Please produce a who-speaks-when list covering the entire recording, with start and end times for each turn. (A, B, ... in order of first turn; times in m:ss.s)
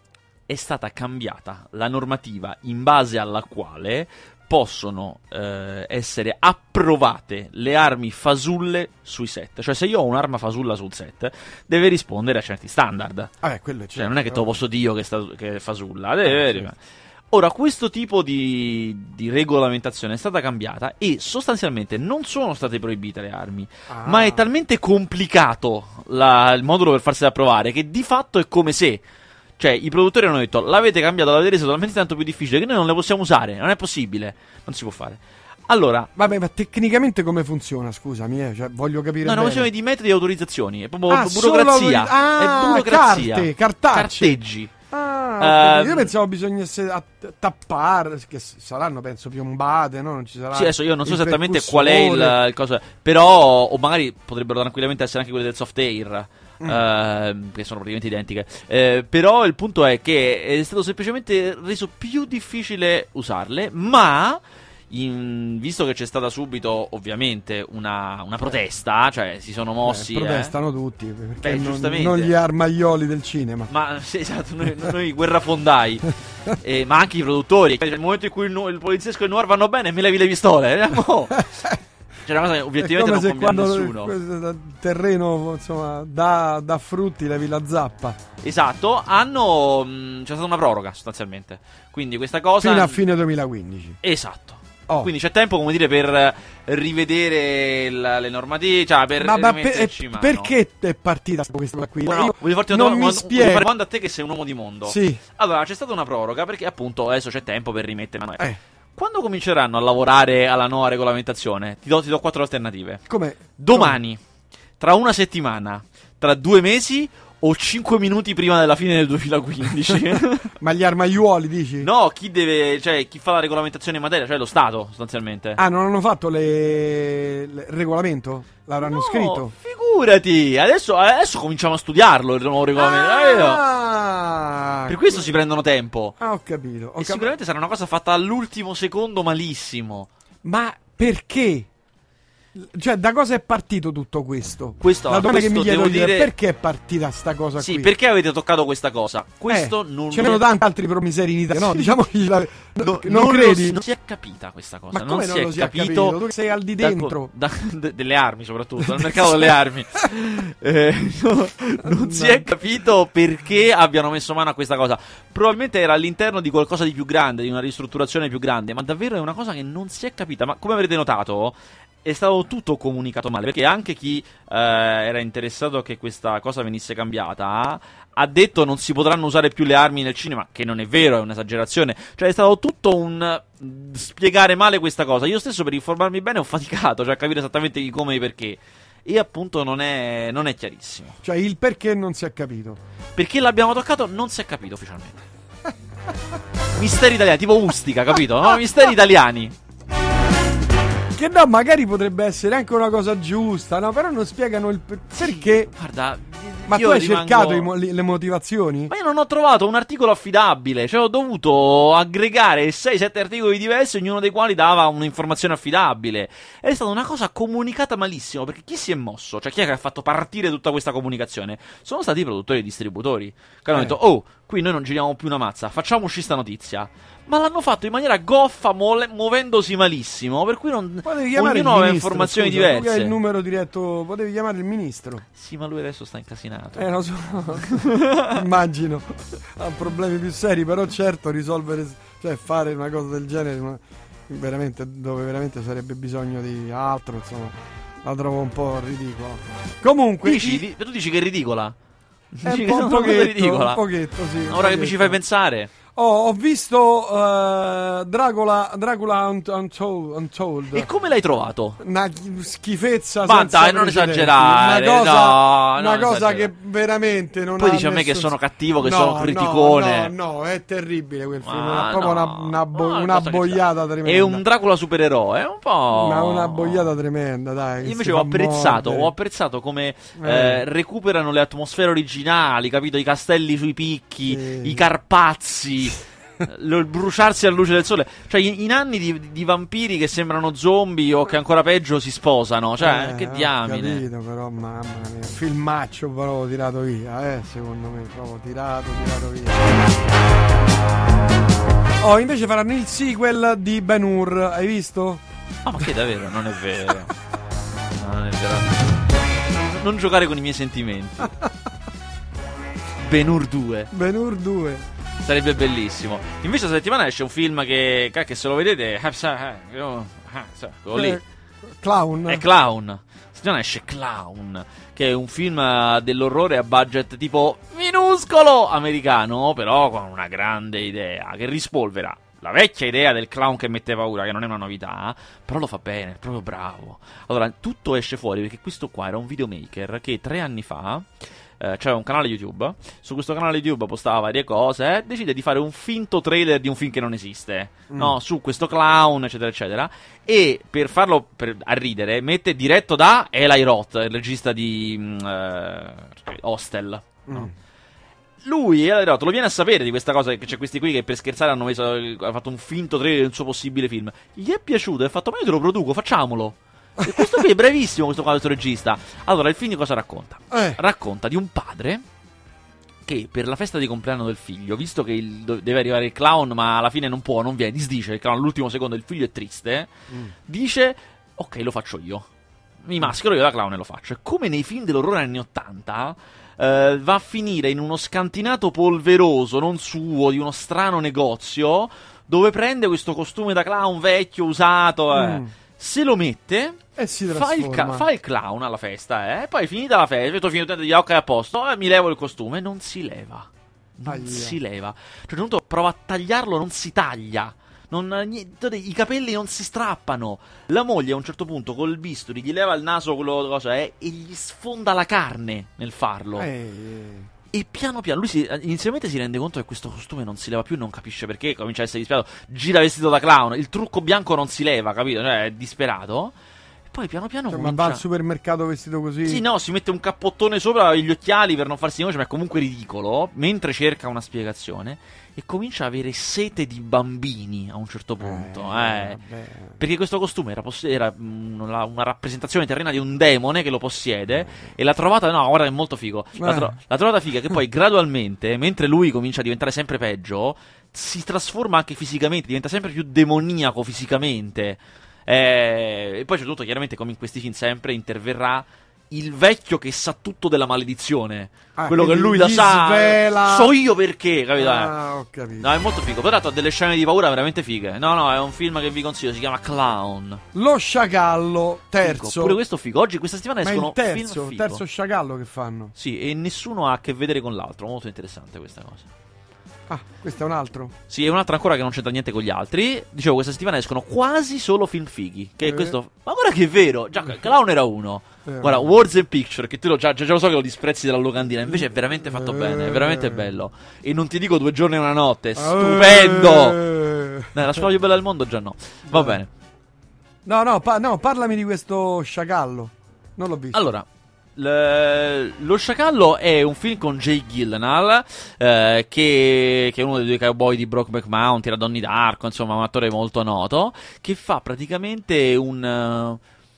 0:00.5-0:13.3 A
0:13.4-0:14.5 B
0:13.9-0:16.8 A
0:16.2-0:16.7 B
0:17.3-0:29.0 A
0:23.9-0:24.5 B
0:29.6-0:36.1 A
0:36.2-0:39.7 B
0:39.2-0:44.7 A
0:41.1-0:44.4 B
0:44.9-0:52.4 B
0:45.4-0:46.1 A
0:50.5-1:10.5 A
1:09.8-1:13.7 B
1:11.4-1:12.3 A
1:13.7-1:21.7 A
1:22.2-1:24.1 A
1:22.8-1:28.2 B
1:28.4-1:33.0 A
1:32.6-1:34.0 B
1:34.0-1:40.5 A
1:39.2-1:43.7 B
1:42.0-1:53.0 A
1:44.8-1:45.2 B
1:53.1-1:54.0 B
1:53.6-1:54.2 A
1:54.8-2:00.5 A
2:00.6-2:01.9 B
2:01.8-2:05.6 A
2:05.6-2:09.5 B
2:08.8-2:13.6 A
2:12.8-2:15.3 B
2:14.9-2:16.2 A
2:16.2-2:17.3 B
2:17.0-2:20.1 A
2:20.4-2:21.7 B
2:22.5-2:27.9 B
2:24.8-2:26.3 A
2:27.6-2:30.4 A
2:29.5-2:33.8 B
2:31.6-2:31.9 A
2:32.8-2:36.2 A
2:34.9-2:37.3 B
2:36.8-3:11.2 A
2:38.8-2:39.5 B
2:41.8-2:42.4 B
3:11.2-3:12.8 B
3:13.2-3:15.2 A
3:16.8-3:19.5 A
3:21.1-3:25.7 B
3:25.1-3:27.7 A
3:26.7-3:28.9 B
3:28.9-3:53.2 A
3:51.0-3:55.2 B
3:55.3-3:56.9 A
3:56.7-4:10.6 B
3:57.7-3:58.3 A
4:10.2-4:11.8 A
4:12.3-4:13.8 A
4:12.4-4:15.2 B
4:14.5-4:15.7 A
4:15.9-4:20.9 B
4:20.7-4:21.8 A
4:21.8-4:34.4 B
4:23.2-4:26.5 A
4:27.6-4:30.1 A
4:31.4-4:36.9 A
4:35.9-4:39.1 B
4:37.8-4:54.0 A
4:40.2-4:40.6 B
4:44.3-4:44.9 B
4:52.8-4:59.9 B
5:02.0-5:05.2 B
5:05.6-5:07.1 A
5:08.0-5:08.8 A
5:09.6-5:11.3 A
5:13.0-5:13.9 A
5:13.9-5:14.8 B
5:15.2-5:21.2 A
5:20.9-5:22.4 B
5:22.3-5:57.5 A
5:47.9-5:48.2 B
5:57.3-5:57.5 B
5:58.4-6:12.0 A
6:07.0-6:07.4 B
6:10.5-6:10.8 B
6:13.0-6:19.9 A
6:20.5-6:22.3 A
6:22.8-6:56.5 A
6:35.1-6:35.5 B
6:37.0-6:38.1 B
6:44.0-6:44.6 B
6:56.4-6:57.3 B
6:57.5-7:06.3 A
7:06.9-7:08.0 A
7:07.5-7:09.4 B
7:09.2-7:19.2 A
7:18.2-7:19.8 B
7:19.8-7:44.9 A
7:26.4-7:26.8 B
7:41.7-7:43.7 B
7:44.6-7:45.7 B
7:45.6-7:50.4 A
7:50.5-7:52.6 B
7:52.0-7:54.8 A
7:53.6-7:55.9 B
7:55.9-7:59.1 A
7:59.9-8:00.9 B
8:01.1-8:16.8 A
8:05.6-8:06.0 B
8:08.4-8:08.9 B
8:11.7-8:13.4 B
8:15.6-8:17.8 B
8:17.5-8:19.5 A
8:19.1-8:19.4 B
8:20.4-8:23.8 B
8:23.7-8:36.4 A